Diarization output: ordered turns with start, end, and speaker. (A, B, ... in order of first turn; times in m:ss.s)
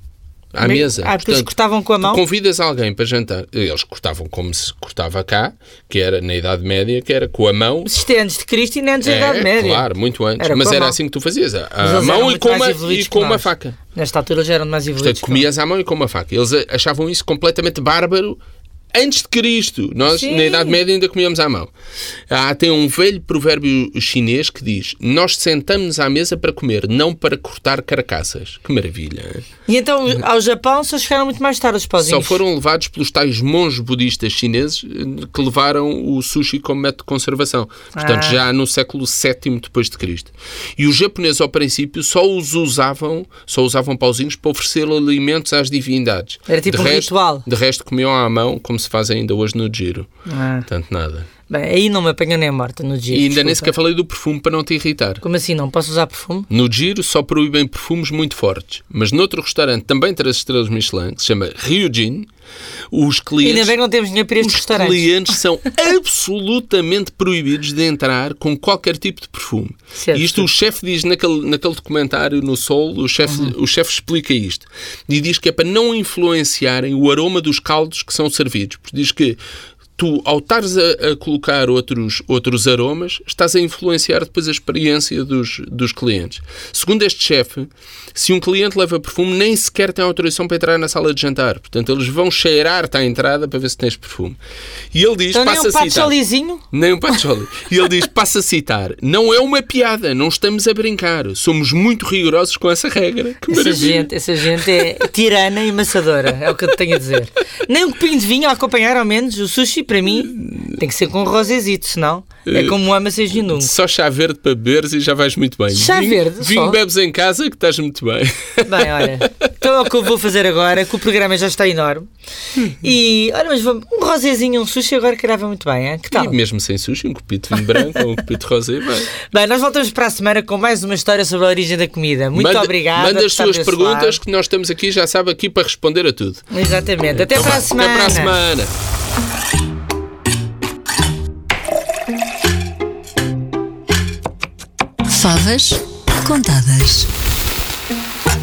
0:00.5-0:07.9 A
0:00.6-0:02.2 B
0:07.8-0:11.0 B
0:09.0-0:13.8 A
0:11.8-0:15.5 B
0:15.0-0:18.4 A
0:18.9-0:21.7 A
0:20.0-0:20.8 B
0:22.3-0:29.4 A
0:29.7-0:32.4 B
0:32.0-0:50.1 A
0:37.9-0:38.4 B
0:46.5-0:47.4 B
0:50.3-0:50.7 B
0:50.7-0:51.3 A
0:51.5-0:53.7 B
0:53.1-0:55.2 A
0:55.2-0:56.5 B
0:56.5-1:02.3 A
1:02.9-1:03.8 A
1:03.4-1:05.1 B
1:04.4-1:19.4 A
1:10.0-1:10.5 B
1:13.3-1:13.5 B
1:20.0-1:34.4 A
1:34.9-1:36.2 A
1:35.3-1:36.6 B
1:36.7-1:45.0 A
1:43.5-1:53.7 B
1:50.1-1:50.8 A
1:52.5-1:52.8 A
1:53.3-1:59.3 A
1:55.7-1:56.8 B
1:58.6-2:02.1 B
2:02.7-2:06.4 B
2:06.1-2:09.1 A
2:07.7-2:08.0 B
2:09.2-2:14.2 B
2:12.4-2:16.4 A
2:16.5-2:18.4 B
2:17.1-2:18.7 A
2:25.1-2:27.1 C